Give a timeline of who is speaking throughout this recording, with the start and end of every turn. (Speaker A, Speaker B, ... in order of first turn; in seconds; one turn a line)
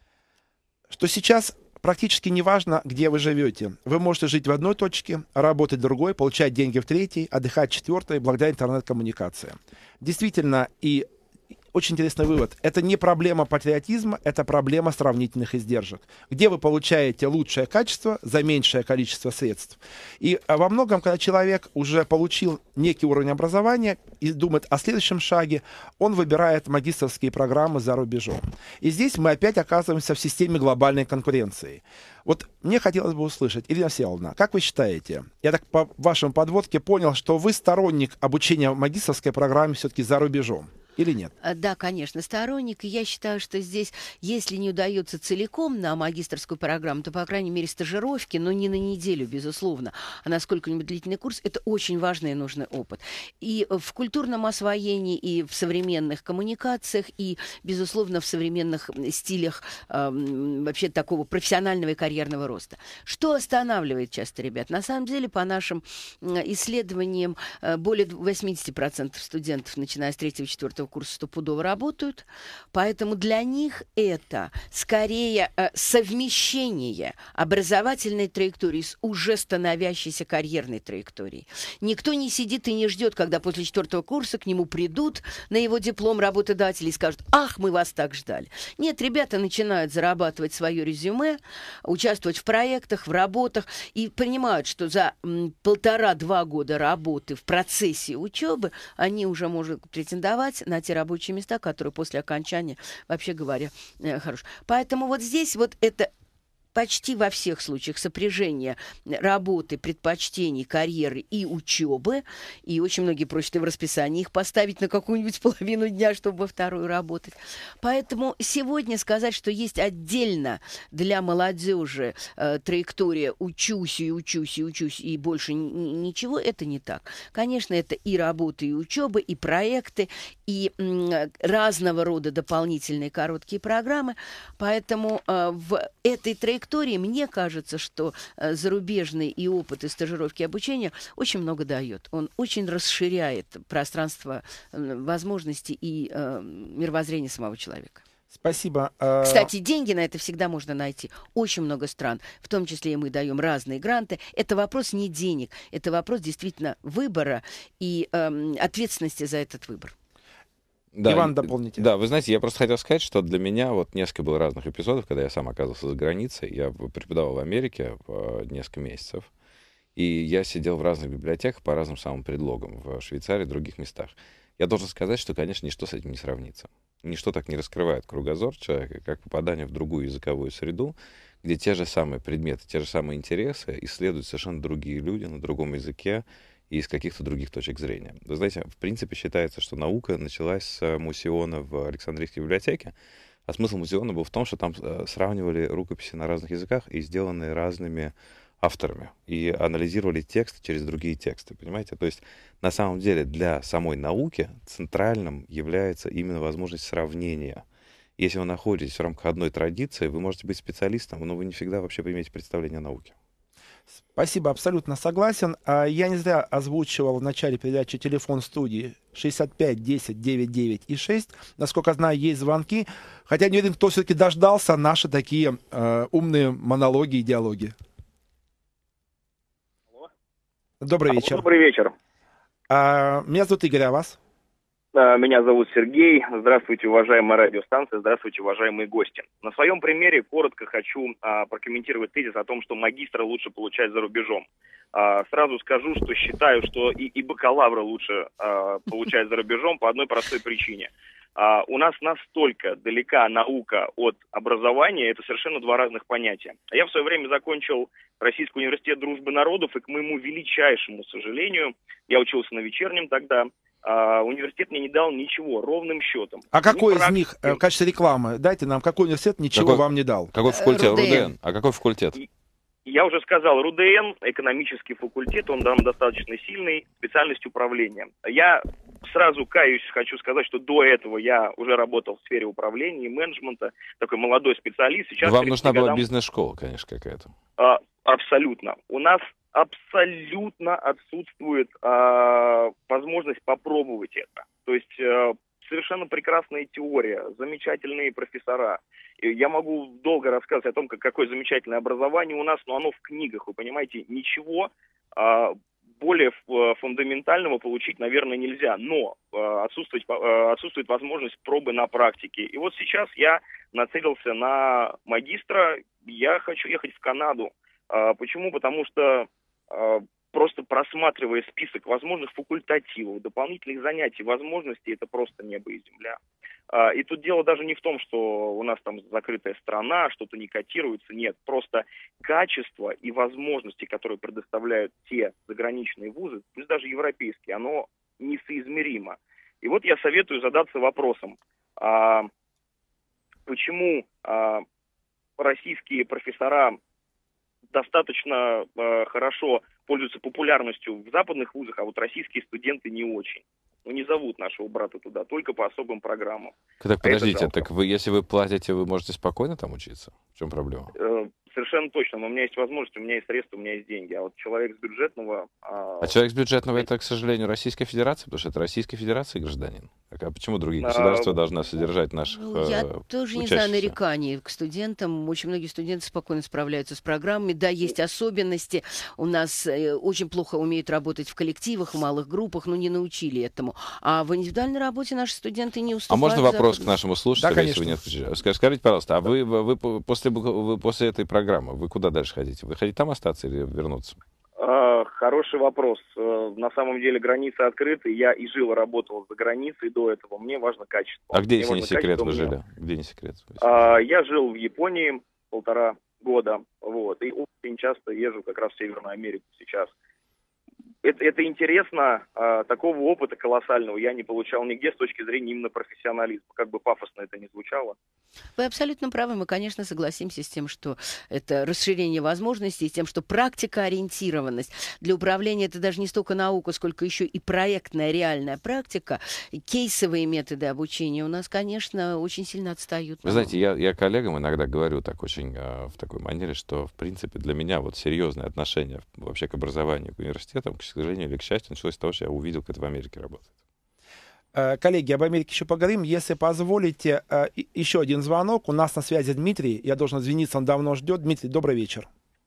Speaker A: 0.9-11.1
Speaker A: 11.7-41.3
Speaker B: 41.4-106.1
Speaker B: 106.7-148.0
Speaker A: 148.3-149.5
Speaker B: 149.2-159.9
Speaker C: 160.9-169.3
Speaker A: 161.1-161.9
Speaker C: 170.0-192.9
Speaker C: 193.5-207.6
Speaker C: 208.2-213.1
Speaker A: 214.1-227.7
Speaker A: 230.8-231.4
Speaker D: 231.1-231.9
Speaker A: 232.7-234.2
Speaker D: 234.9-267.6
Speaker A: 266.5-270.3
Speaker C: 269.5-272.2
Speaker B: 270.5-271.3
Speaker D: 272.9-286.0
Speaker C: 285.2-287.3
Speaker D: 287.6-326.2
Speaker D: 326.7-342.3
Speaker D: 343.5-344.6
Speaker D: 345.4-346.8
Speaker D: 347.7-357.6
Speaker C: 356.8-360.9
Speaker D: 361.0-366.1
Speaker C: 366.0-374.0
Speaker D: 370.8-371.4
Speaker B: 372.4-386.9
Speaker C: 386.1-394.2
Speaker A: 387.4-388.0
Speaker D: 394.6-402.6
Speaker C: 401.3-404.0
Speaker D: 403.6-409.9
Speaker D: 411.0-417.9
Speaker B: 418.6-433.5
Speaker C: 433.2-443.5
Speaker A: 444.6-452.1